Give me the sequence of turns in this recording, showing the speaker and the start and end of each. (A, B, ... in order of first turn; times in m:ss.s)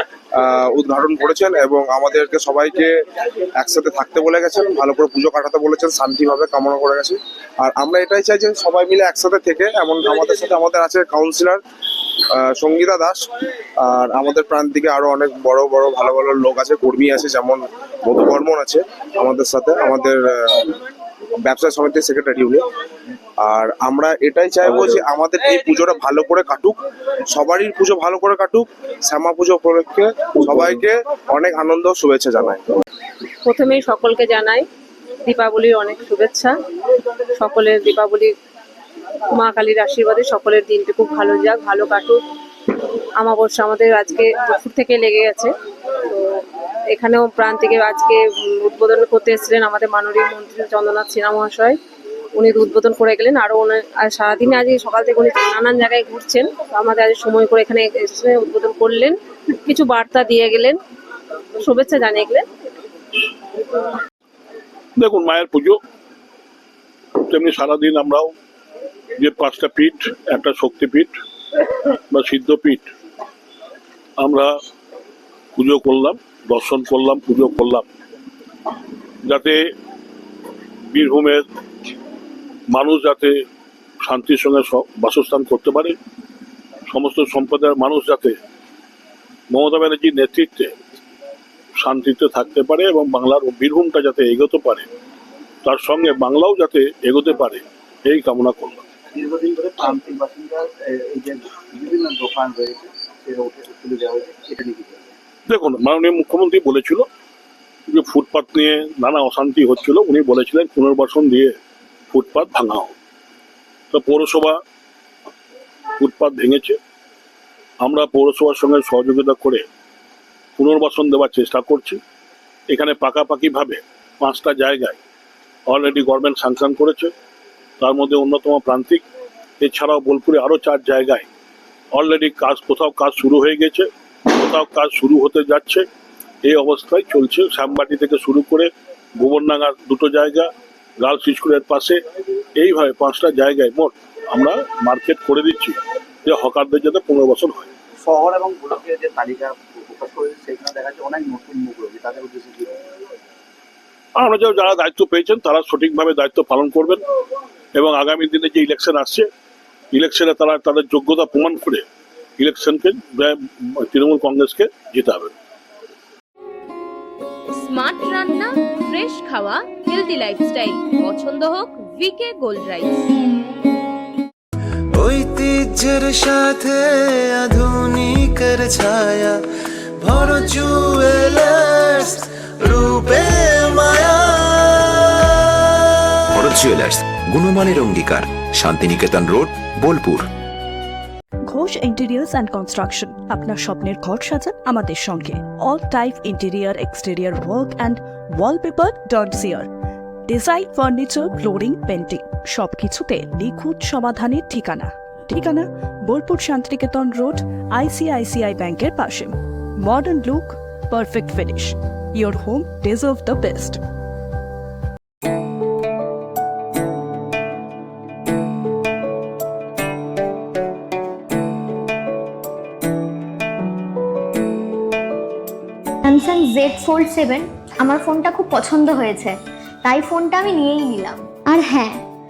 0:00.4-0:02.9 A
0:03.6-0:11.6 A
0:12.4-0:13.3 A
0:13.8-0:20.7 A
0:21.4-0:22.6 A
0:23.4-0:26.8 A
0:27.3-0:32.8 A
0:33.4-0:34.7 B
0:35.2-0:36.5 B
0:37.4-0:38.3 B
0:39.3-0:42.2 B
0:43.2-0:45.5 B
0:46.1-0:51.8 B
0:52.4-1:00.8 B
1:01.6-1:02.4 B
1:05.0-1:05.8 C
1:07.2-1:08.3 C
1:09.2-1:11.1 C
1:12.1-1:12.9 C
1:14.2-1:14.5 C
1:15.5-1:17.8 C
1:19.2-1:19.6 C
1:20.9-1:21.4 C
1:22.7-1:23.3 C
1:24.0-1:25.9 C
1:26.9-1:28.4 C
1:29.5-1:30.7 C
1:31.8-1:34.8 C
1:35.6-1:38.8 C
1:39.1-1:45.1 D
1:45.5-1:47.0 C
1:47.9-1:51.6 C
1:52.1-1:52.9 C
1:53.9-1:54.6 C
1:56.0-1:56.8 C
1:57.8-1:59.6 C
2:00.6-2:02.0 C
2:02.7-2:05.0 C
2:05.7-2:07.1 C
2:07.8-2:09.0 C
2:09.6-2:11.2 C
2:11.9-2:15.8 C
2:16.4-2:20.5 C
2:21.0-2:22.0 C
2:22.6-2:27.7 C
2:28.0-2:32.8 D
2:34.2-2:37.0 C
2:37.8-2:39.3 C
2:39.9-2:41.8 C
2:42.4-2:45.3 C
2:47.5-2:53.1 E
2:54.9-2:56.8 F
2:57.3-2:59.4 F
3:00.0-3:04.9 F
3:06.4-3:10.3 G
3:11.5-3:19.7 H
3:20.3-3:33.8 H
3:46.0-3:52.0 I